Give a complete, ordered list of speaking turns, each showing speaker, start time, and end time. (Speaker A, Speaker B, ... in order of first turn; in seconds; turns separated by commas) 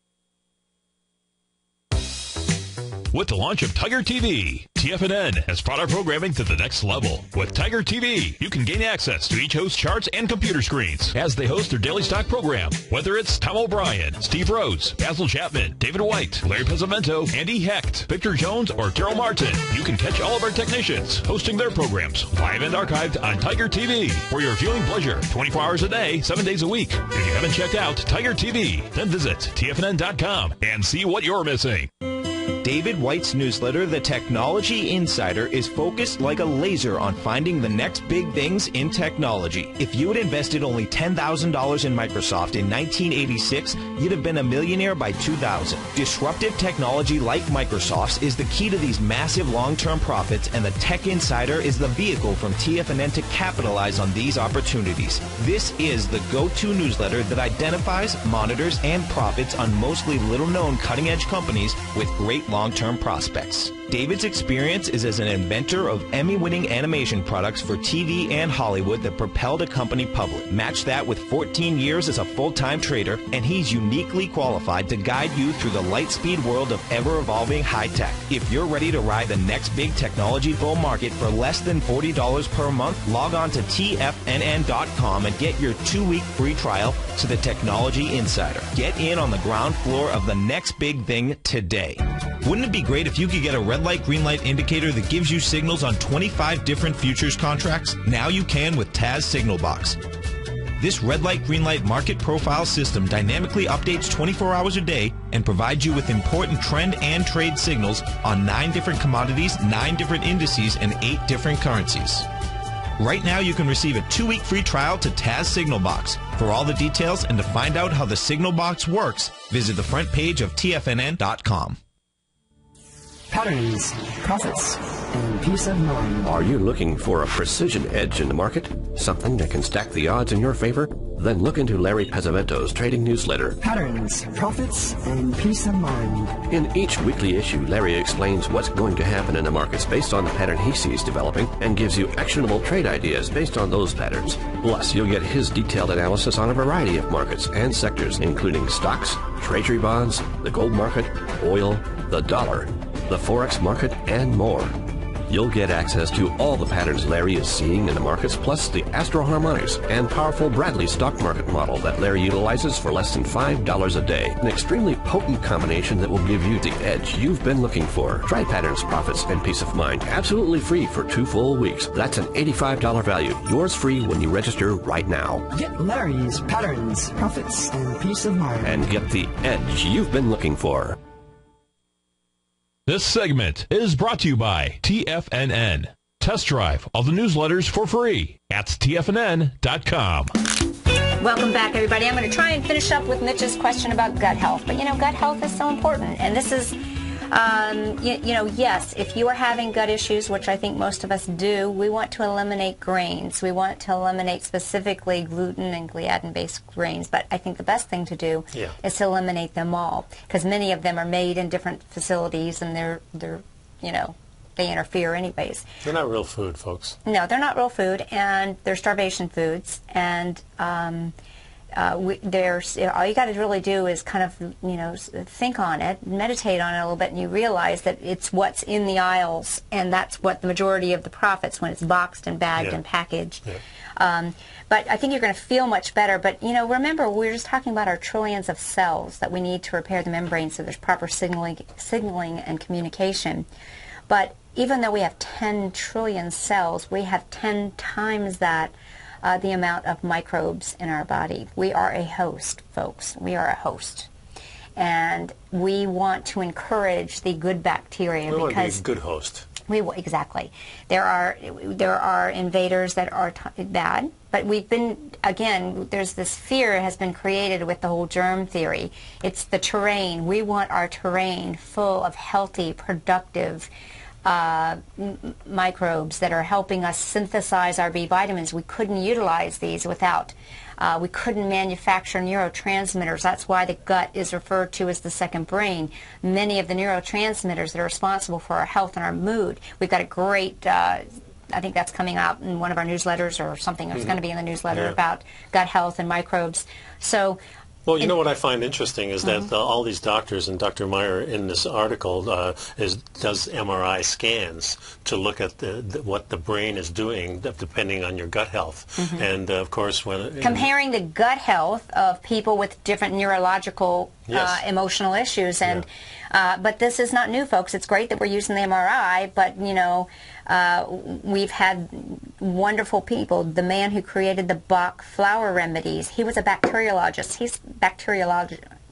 Speaker A: 3.1-31.9, Speaker B: 32.6-100.0, Speaker B: 100.8-112.3, Speaker B: 113.0-121.8, Speaker C: 123.3-126.4, Speaker D: 126.2-133.6, Speaker C: 133.6-136.4, Speaker D: 136.5-154.8, Speaker D: 155.3-175.5, Speaker C: 175.5-178.9, Speaker D: 178.6-181.0, Speaker A: 182.9-190.3, Speaker E: 191.2-196.8, Speaker E: 197.3-215.7, Speaker F: 215.8-217.0, Speaker E: 217.1-221.1, Speaker E: 221.7-233.4, Speaker F: 232.6-232.8, Speaker E: 234.0-243.5, Speaker E: 244.1-254.1, Speaker E: 254.8-258.8, Speaker F: 258.3-259.5, Speaker E: 259.7-273.7, Speaker E: 274.2-297.4, Speaker F: 293.9-294.2, Speaker F: 294.7-295.0, Speaker F: 297.9-310.7, Speaker E: 309.0-309.3, Speaker E: 310.4-328.6, Speaker F: 314.3-314.6